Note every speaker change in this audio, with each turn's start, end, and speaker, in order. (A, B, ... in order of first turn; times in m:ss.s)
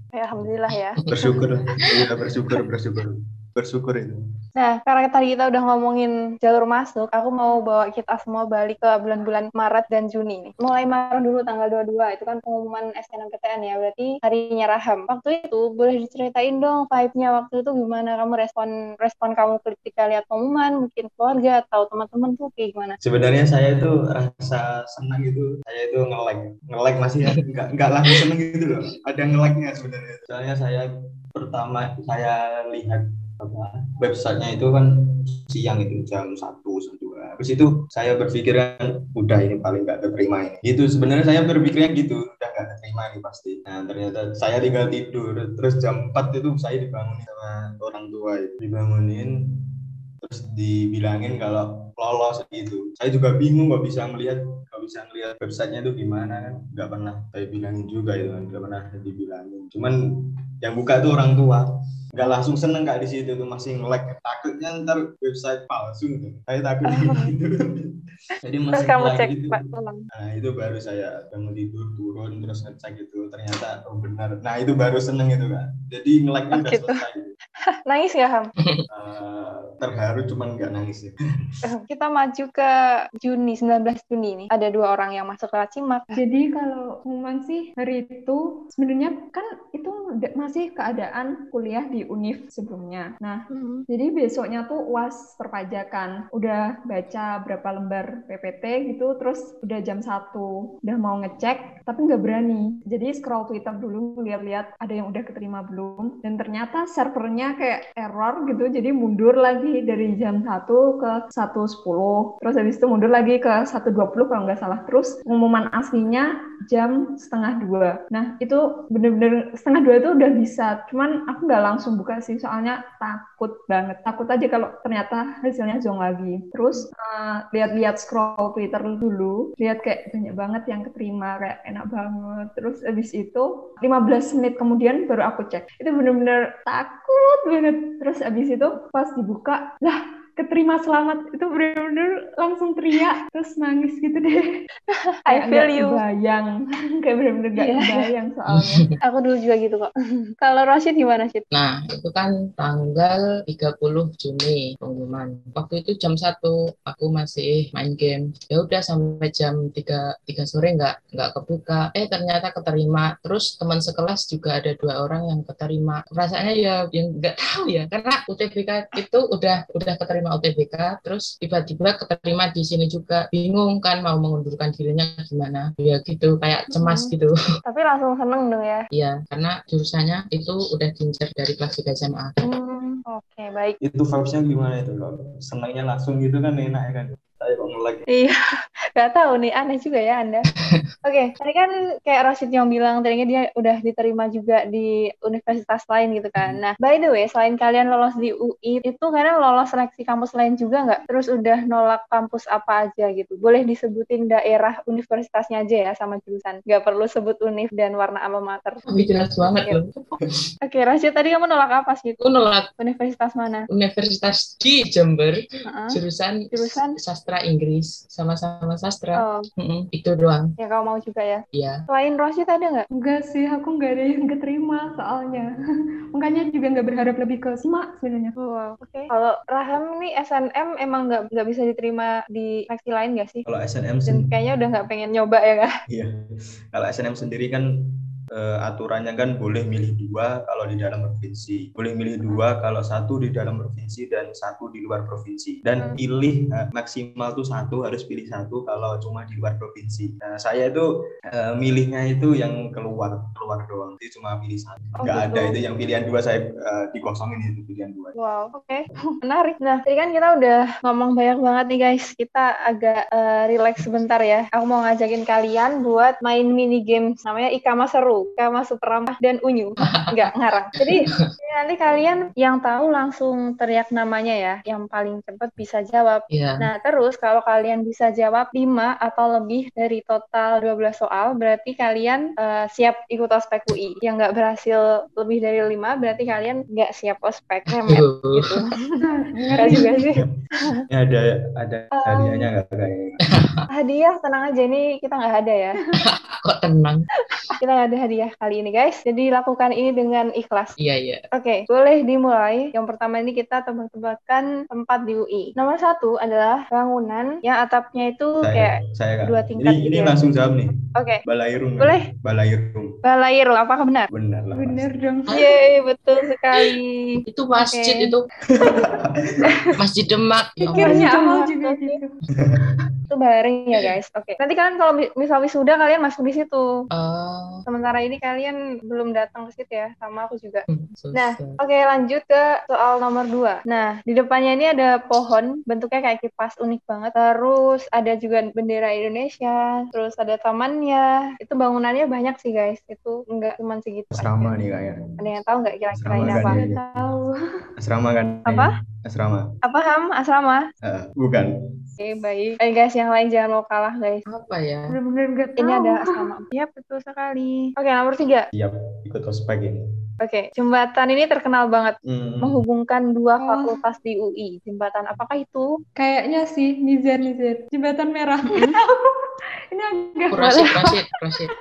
0:00.1-0:01.4 A
0:01.1-0:04.2 B
0:01.1-0:01.4 C
0:04.6-0:23.0 A
0:23.0-0:49.4 B
0:50.2-1:00.0 B
1:00.6-1:07.9 B
1:06.9-1:07.3 A
1:08.4-1:09.6 B
1:08.7-1:10.1 A
1:10.1-1:17.3 B
1:16.5-1:17.0 A
1:17.6-1:18.5 A
1:18.9-1:21.2 B
1:21.6-1:26.1 A
1:26.1-2:24.5 D
1:33.5-1:33.8 A
2:24.9-2:26.0 A
2:25.3-2:28.9 D
2:27.6-2:28.0 A
2:28.5-2:28.9 C
2:29.0-2:31.4 A
2:31.5-2:57.3 C
2:56.7-2:57.1 A
2:57.6-2:58.8 A
2:58.9-3:02.4 C
3:02.4-3:03.8 A
3:03.8-3:08.0 B
3:08.1-3:08.4 A
3:08.9-3:10.4 A
3:11.0-3:28.8 A
3:28.9-3:30.2 C
3:30.6-3:32.2 A
3:32.2-3:32.7 C
3:32.8-3:33.7 A
3:33.7-3:40.5 C
3:35.6-3:36.0 A
3:36.5-3:37.0 A
3:39.2-3:39.4 A
3:40.6-3:42.9 A
3:41.5-3:41.8 C
3:42.9-3:45.5 D
3:46.1-3:48.4 D
3:48.4-3:53.4 A
3:53.4-3:54.3 B
3:54.1-3:55.7 A
3:55.9-3:56.1 B
3:56.7-3:57.7 B
3:58.3-4:18.1 B
4:15.0-4:15.5 A
4:18.2-4:49.0 A
4:29.8-4:30.3 C
4:30.8-4:31.3 C
4:36.3-4:36.7 C
4:47.7-4:48.6 C
4:49.0-4:50.1 D
4:49.6-4:50.8 A
4:50.9-4:53.2 B
4:52.0-4:52.5 A
4:53.3-4:53.6 C
4:53.7-4:55.8 A
4:56.0-4:57.2 C
4:57.6-5:00.7 A
5:00.8-5:01.2 C
5:01.3-5:08.7 A
5:08.4-5:10.7 B
5:09.2-5:10.2 A
5:11.0-5:11.2 A
5:11.2-5:13.0 B
5:13.0-5:14.1 A
5:14.1-5:14.9 B
5:14.5-5:15.4 D
5:15.3-5:18.1 A
5:17.3-5:18.2 C
5:18.6-5:19.6 B
5:19.8-5:21.1 C
5:20.7-5:22.1 D
5:20.7-5:22.0 A
5:22.4-5:22.8 B
5:23.1-5:26.7 A
5:26.9-5:27.6 C
5:27.7-5:44.5 A
5:30.7-5:31.6 C
5:44.1-5:45.2 B
5:45.2-5:46.6 A
5:45.9-5:47.0 B
5:46.2-5:47.3 D
5:47.8-5:49.4 B
5:48.4-5:48.7 A
5:49.6-5:50.7 A
5:50.8-5:51.5 B
5:52.0-5:54.2 A
5:54.3-5:54.9 C
5:54.9-5:56.2 D
5:55.6-5:58.5 A
5:58.5-5:59.9 B
6:00.2-6:05.7 A
6:02.1-6:02.6 B
6:03.4-6:03.7 D
6:06.0-6:09.1 D
6:09.7-6:10.7 D
6:10.3-6:11.5 C
6:10.4-6:10.8 A